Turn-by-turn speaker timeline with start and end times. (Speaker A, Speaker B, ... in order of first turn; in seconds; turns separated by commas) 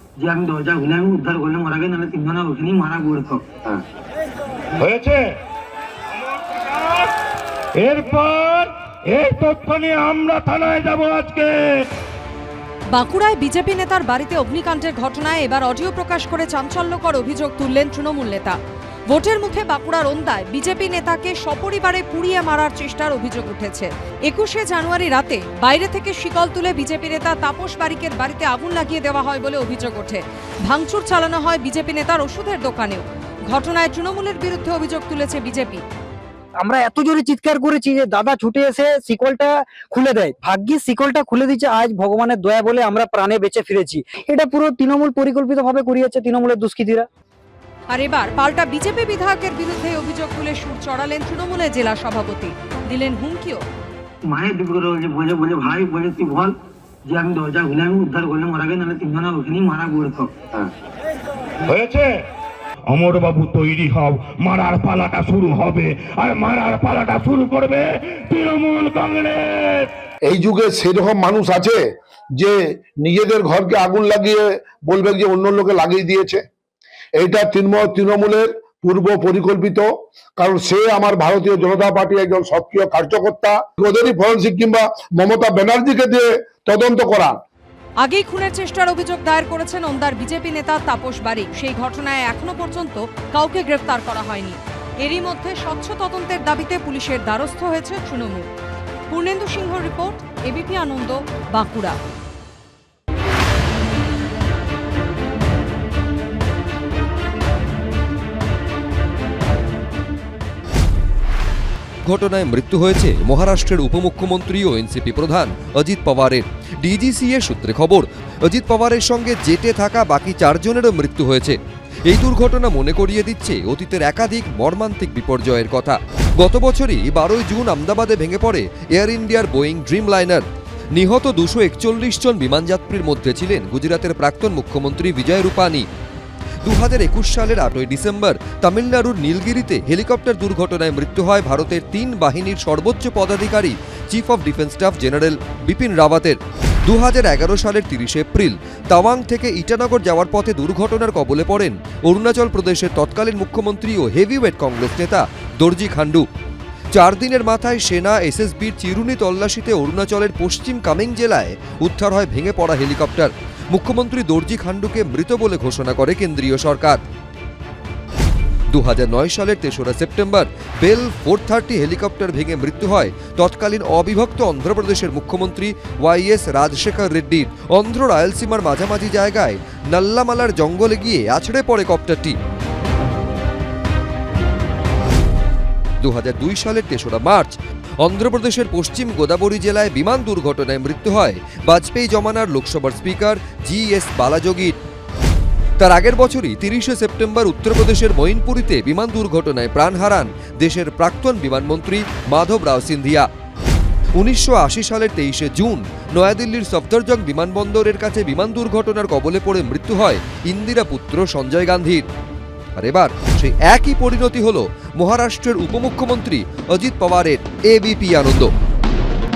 Speaker A: 0.2-3.5, Speaker B: 4.8-5.3, Speaker B: 6.6-7.1, Speaker B: 7.8-11.7, Speaker C: 12.9-18.6, Speaker C: 19.1-35.8, Speaker D: 36.6-47.1, Speaker C: 47.9-53.6, Speaker A: 54.2-56.5, Speaker A: 57.1-60.7, Speaker B: 61.6-62.2, Speaker B: 62.9-69.9, Speaker E: 70.3-71.8, Speaker E: 72.4-76.4, Speaker E: 77.2-87.4, Speaker C: 88.0-98.5, Speaker C: 99.1-102.0, Speaker F: 112.0-130.4, Speaker F: 130.9-135.9, Speaker F: 136.6-156.2, Speaker F: 156.9-167.0, Speaker F: 168.7-182.3, Speaker F: 186.0-194.8, Speaker F: 195.8-203.3, Speaker F: 204.2-212.1, Speaker F: 212.8-218.5